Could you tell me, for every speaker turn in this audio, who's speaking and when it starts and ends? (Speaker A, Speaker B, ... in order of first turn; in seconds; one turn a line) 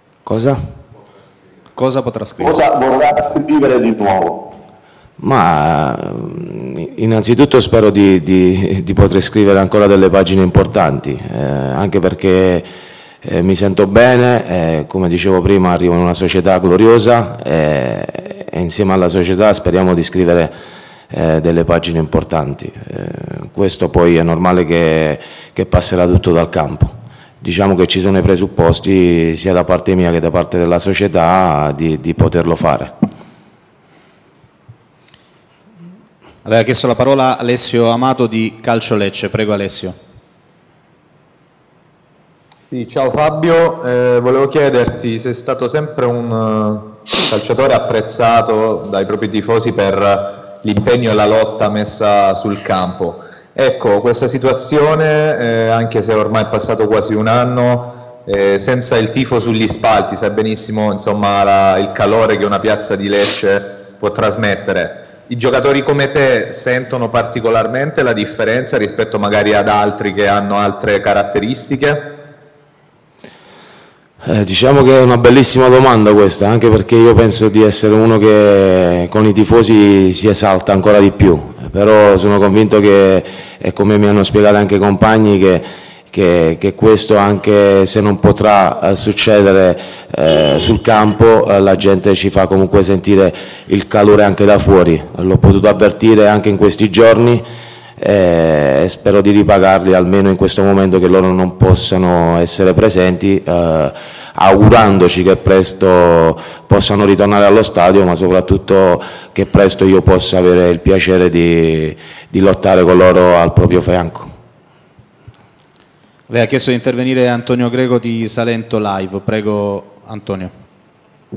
Speaker A: 0.2-0.6
Speaker B: 1.8-2.6
Speaker C: 2.4-4.4
Speaker A: 5.2-12.7
Speaker A: 13.2-20.5
Speaker A: 21.1-32.9
Speaker B: 36.4-40.0
Speaker D: 42.7-72.0
Speaker A: 74.2-97.4
Speaker A: 98.0-114.3
Speaker B: 116.3-120.5